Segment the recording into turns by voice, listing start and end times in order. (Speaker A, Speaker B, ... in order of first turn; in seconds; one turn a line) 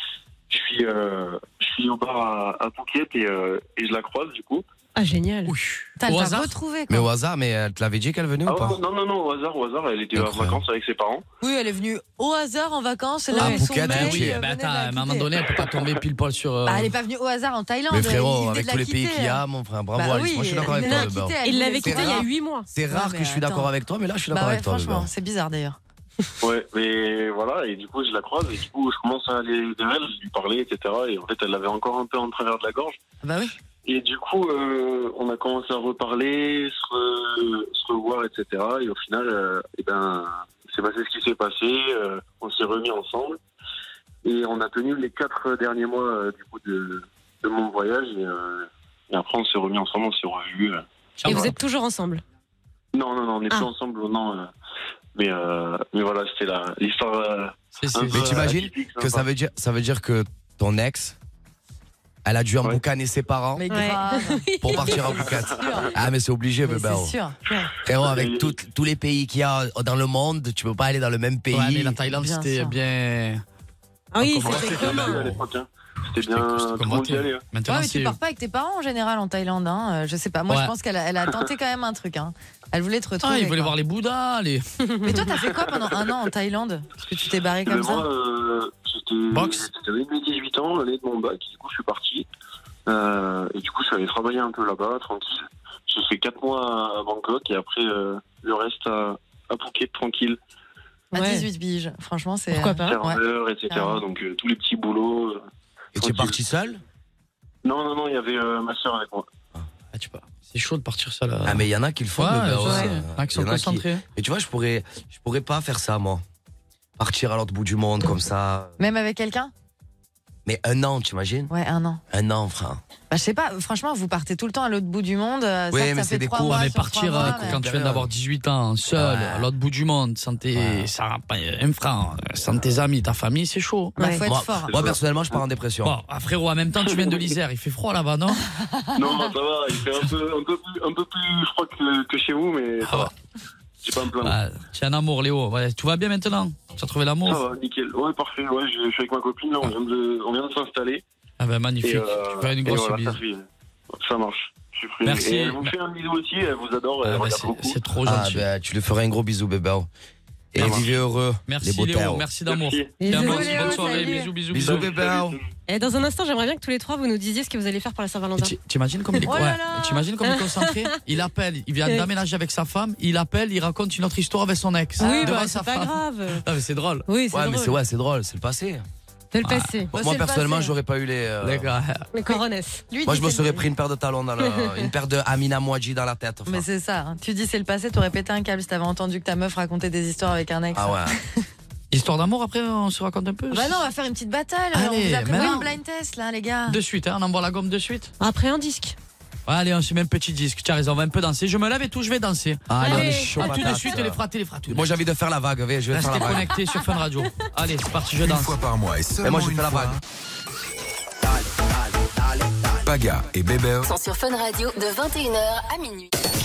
Speaker A: 0.5-4.7
Speaker B: 5.0-5.5
Speaker C: 5.5-6.5
Speaker D: 6.0-7.1
Speaker E: 6.9-8.8
Speaker A: 8.5-11.2
Speaker E: 10.2-10.6
Speaker D: 11.4-15.6
Speaker B: 13.3-13.7
Speaker E: 13.4-14.4
Speaker C: 13.8-16.9
Speaker D: 16.7-19.4
Speaker E: 17.9-25.1
Speaker D: 19.9-22.3
Speaker B: 20.7-22.7
Speaker D: 22.9-23.7
Speaker D: 24.3-25.8
Speaker A: 26.4-33.0
Speaker D: 33.2-33.5
Speaker A: 33.9-43.4
Speaker A: 44.2-51.5
Speaker C: 51.2-51.6
Speaker B: 51.2-52.2
Speaker A: 52.9-54.5
Speaker A: 55.1-59.3
Speaker C: 57.8-58.3
Speaker E: 58.1-61.2
Speaker E: 62.2-63.7
Speaker D: 63.5-66.0
Speaker B: 63.7-64.8
Speaker E: 64.6-67.2
Speaker A: 64.9-65.2
Speaker D: 66.6-67.7
Speaker E: 67.8-72.0
Speaker A: 68.0-68.6
Speaker C: 71.5-73.4
Speaker D: 72.1-72.8
Speaker B: 74.1-75.3
Speaker C: 74.2-75.4
Speaker A: 74.4-77.4
Speaker C: 76.1-78.2
Speaker D: 77.7-83.7
Speaker C: 83.2-85.2
Speaker D: 85.0-88.1
Speaker A: 87.7-92.3
Speaker C: 89.3-89.7
Speaker A: 92.9-100.4
Speaker D: 101.1-104.0
Speaker B: 101.1-101.5
Speaker B: 102.5-103.0
Speaker A: 102.8-105.4
Speaker E: 106.0-106.8
Speaker A: 106.0-106.4
Speaker A: 107.6-109.3
Speaker C: 109.9-114.0
Speaker E: 111.4-116.2
Speaker E: 117.0-118.8
Speaker D: 118.8-119.5
Speaker E: 120.5-121.5
Speaker D: 121.5-122.0
Speaker E: 122.1-122.8
Speaker D: 123.1-127.6
Speaker E: 125.7-128.1
Speaker C: 126.5-134.0
Speaker E: 128.9-129.5
Speaker E: 130.5-130.9
Speaker D: 134.0-134.8
Speaker B: 134.0-134.2
Speaker E: 134.3-136.0
Speaker A: 134.7-135.4
Speaker C: 135.8-138.5
Speaker A: 136.8-137.4
Speaker D: 138.6-138.9
Speaker A: 139.0-143.1
Speaker C: 142.8-143.1
Speaker A: 143.8-144.4
Speaker C: 144.2-147.4
Speaker A: 147.3-151.0
Speaker C: 151.4-153.2
Speaker A: 151.8-157.8
Speaker C: 155.0-155.7
Speaker C: 157.0-158.4
Speaker E: 158.1-159.9
Speaker E: 160.5-162.3
Speaker A: 160.6-160.9
Speaker C: 160.6-164.9
Speaker A: 162.5-163.9
Speaker B: 163.0-164.3
Speaker D: 163.1-164.3
Speaker E: 164.5-165.4
Speaker A: 164.8-165.5
Speaker B: 165.7-168.5
Speaker C: 168.4-177.1
Speaker D: 169.2-170.1
Speaker B: 170.3-170.7
Speaker B: 175.0-176.4
Speaker B: 177.1-177.8
Speaker E: 177.3-178.8
Speaker B: 179.3-179.9
Speaker C: 179.4-179.8
Speaker E: 179.9-181.7
Speaker D: 179.9-180.8
Speaker C: 181.4-182.1
Speaker B: 182.1-182.9
Speaker D: 182.3-183.6
Speaker E: 183.0-186.7
Speaker B: 184.4-184.9
Speaker D: 186.5-191.4
Speaker E: 190.7-191.2
Speaker C: 191.9-193.8
Speaker D: 193.5-196.8
Speaker C: 194.7-195.7
Speaker B: 195.3-195.7
Speaker C: 196.7-198.1
Speaker B: 198.2-199.0
Speaker C: 199.5-204.9
Speaker E: 202.7-206.6
Speaker B: 202.8-203.8
Speaker C: 205.9-208.6
Speaker F: 208.4-209.8
Speaker E: 209.2-210.0
Speaker F: 212.9-213.8
Speaker G: 213.8-216.1